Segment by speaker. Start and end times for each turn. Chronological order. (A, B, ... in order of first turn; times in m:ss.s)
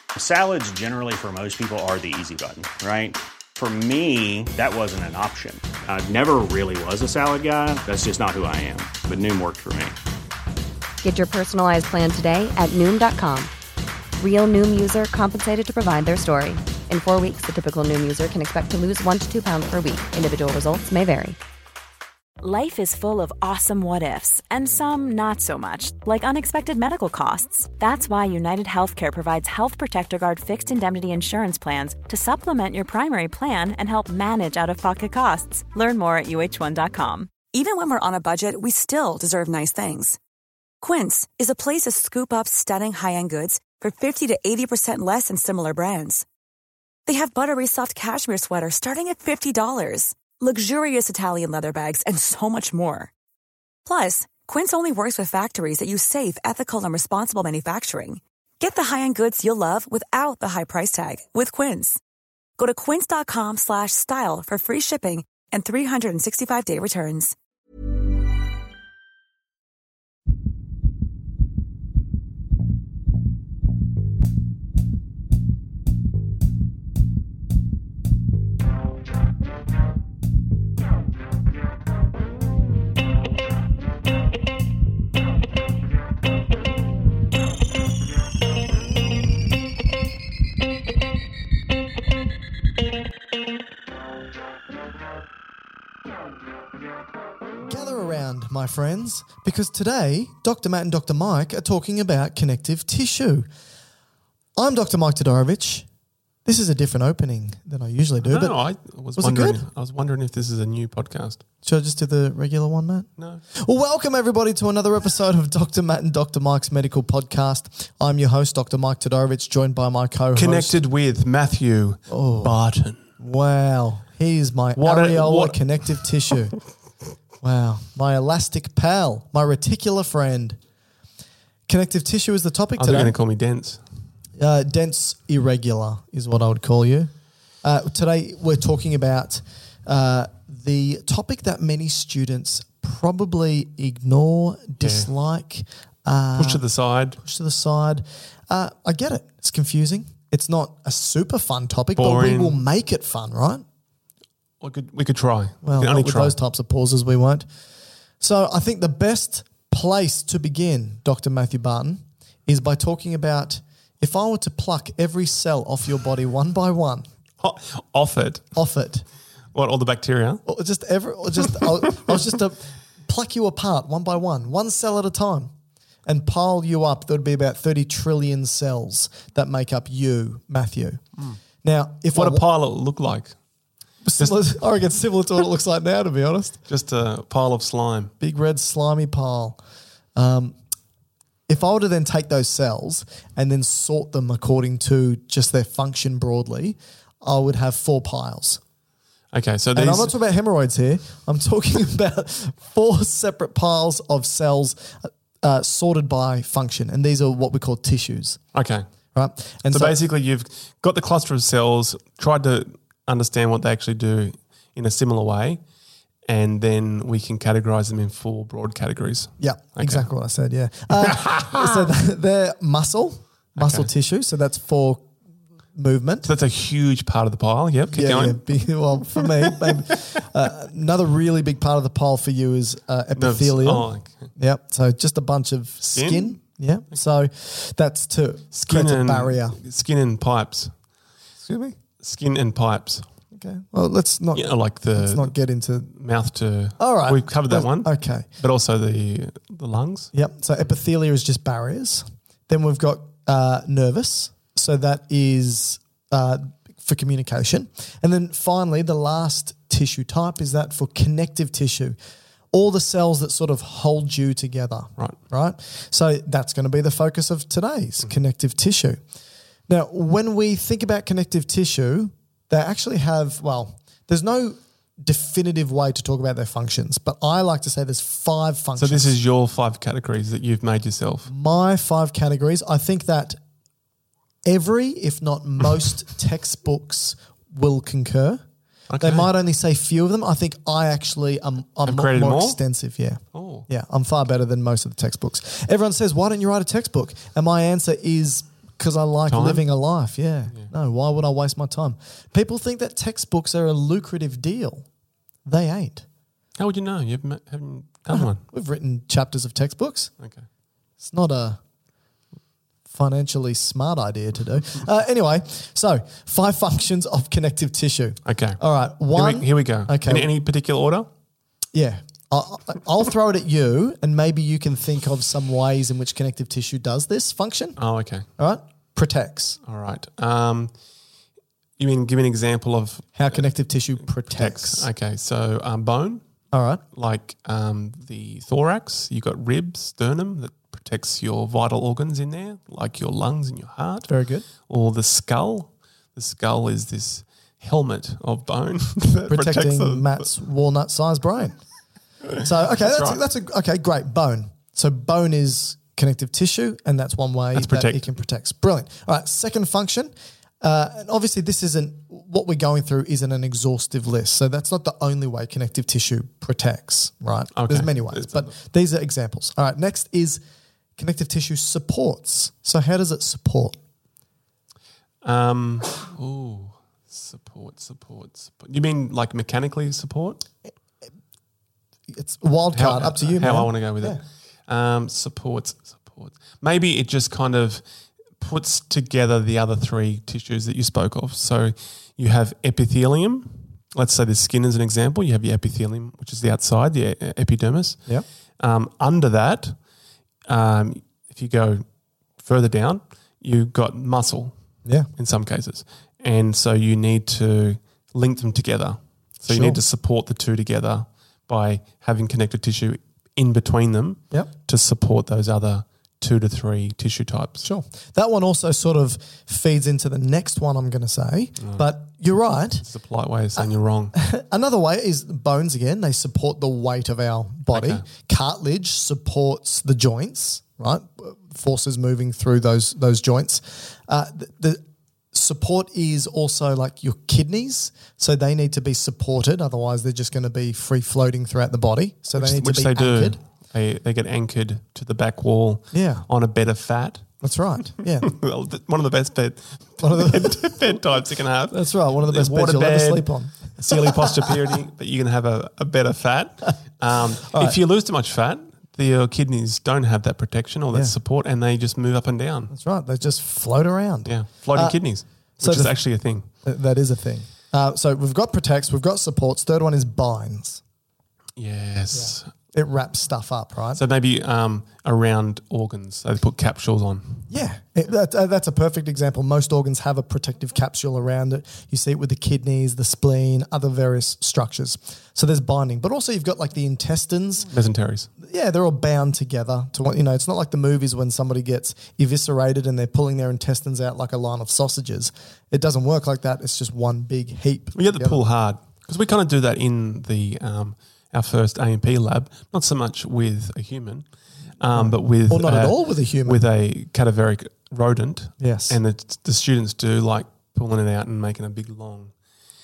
0:00.2-0:10.0 A
0:11.0-0:13.5 B
0:14.2-0:21.4 B
0:22.4-0:37.3 C
0:37.5-0:40.2 D
0:40.8-0:46.2 D
0:47.0-0:53.1 D
0:53.8-1:02.0 D
1:02.6-1:07.3 D
1:37.6-1:43.5 E
1:44.6-1:45.8 E
1:46.4-1:48.6 E
1:48.2-1:51.4 F
1:49.2-1:49.6 E
1:51.6-2:00.8 E
2:00.3-2:03.0 F
2:02.1-2:02.5 E
2:03.2-2:06.6 E
2:04.8-2:06.1 F
2:07.4-2:10.6 E
2:11.7-2:13.1 E
2:12.8-2:13.8 F
2:14.4-2:17.1 E
2:17.6-2:26.6 E
2:24.8-2:25.1 F
2:26.4-2:27.2 F
2:27.2-2:33.6 E
2:32.0-2:32.6 F
2:34.6-2:36.3 F
2:35.6-2:37.5 E
2:38.2-2:47.1 E
2:47.4-2:48.5 F
2:48.5-2:49.0 E
2:49.5-2:50.4 F
2:50.4-2:55.5 E
2:56.0-3:01.0 E
3:01.6-3:02.4 E
3:02.1-3:03.4 F
3:04.0-3:06.6 E
3:04.2-3:04.5 F
3:06.7-3:08.1 F
3:08.2-3:09.6 E
3:10.1-3:10.6 E
3:11.5-3:18.6 E
3:19.3-3:20.1 F
3:19.7-3:28.4 E
3:28.5-3:28.8 F
3:29.1-3:30.0 E
3:29.7-3:35.6 F
3:36.3-3:40.1 F
3:39.4-3:45.1 E
3:41.0-3:41.7 F
3:43.6-3:43.9 F
3:45.7-3:46.3 E
3:46.2-3:48.4 F
3:47.9-3:59.6 E
3:49.2-3:50.0 F
3:53.2-3:54.3 F
3:55.9-3:56.4 F
3:58.5-4:00.7 F
4:01.4-4:01.8 E
4:02.0-4:03.0 F
4:03.3-4:05.9 E
4:04.3-4:05.3 F
4:05.9-4:10.1 F
4:06.8-4:08.2 E
4:10.1-4:22.0 E
4:22.5-4:29.0 E
4:29.7-4:39.1 E
4:38.8-4:41.3 F
4:41.3-4:43.4 E
4:44.4-4:48.4 E
4:48.9-4:49.3 F
4:49.0-5:04.8 E
4:51.8-4:52.6 F
4:53.3-4:53.7 F
4:59.3-4:59.6 F
5:05.4-5:06.0 E
5:06.6-5:08.4 F
5:08.1-5:10.1 E
5:11.0-5:11.6 E
5:12.9-5:20.3 E
5:18.2-5:18.6 F
5:19.1-5:21.1 F
5:21.7-5:27.8 E
5:27.8-5:28.2 F
5:28.4-5:29.6 E
5:29.6-5:30.7 F
5:31.8-5:33.4 F
5:33.2-5:34.9 E
5:34.2-5:36.2 F
5:36.5-5:36.8 E
5:36.9-5:44.1 F
5:44.1-5:44.5 E
5:44.7-5:50.2 F
5:49.3-5:51.6 E
5:52.3-5:53.2 F
5:52.4-6:10.4 E
5:57.5-5:58.0 F
6:07.6-6:08.5 F
6:11.0-6:13.8 E
6:15.2-6:20.4 F
6:22.1-6:24.2 E
6:22.7-6:27.8 F
6:28.4-6:38.0 F
6:38.6-6:39.8 F
6:40.5-6:41.8 F
6:42.4-6:44.5 F
6:45.2-6:57.7 F
6:49.5-6:49.8 E
6:57.6-7:02.8 E
7:02.8-7:04.1 F
7:04.1-7:23.4 E
7:07.7-7:08.0 F
7:22.3-7:27.4 F
7:25.9-7:26.2 E
7:27.4-7:28.3 E
7:28.2-7:42.7 F
7:30.0-7:30.8 E
7:31.7-7:34.5 E
7:37.4-7:37.8 E
7:42.7-7:45.0 E
7:44.2-7:46.5 F
7:45.6-7:46.0 E
7:46.6-7:50.8 E
7:51.6-7:52.5 F
7:52.1-7:54.0 E
7:53.9-7:57.5 F
7:57.5-8:07.7 E
8:07.7-8:08.3 F
8:08.4-8:18.4 E
8:17.9-8:24.2 F
8:24.8-8:32.3 F
8:24.9-8:26.6 E
8:28.6-8:29.0 E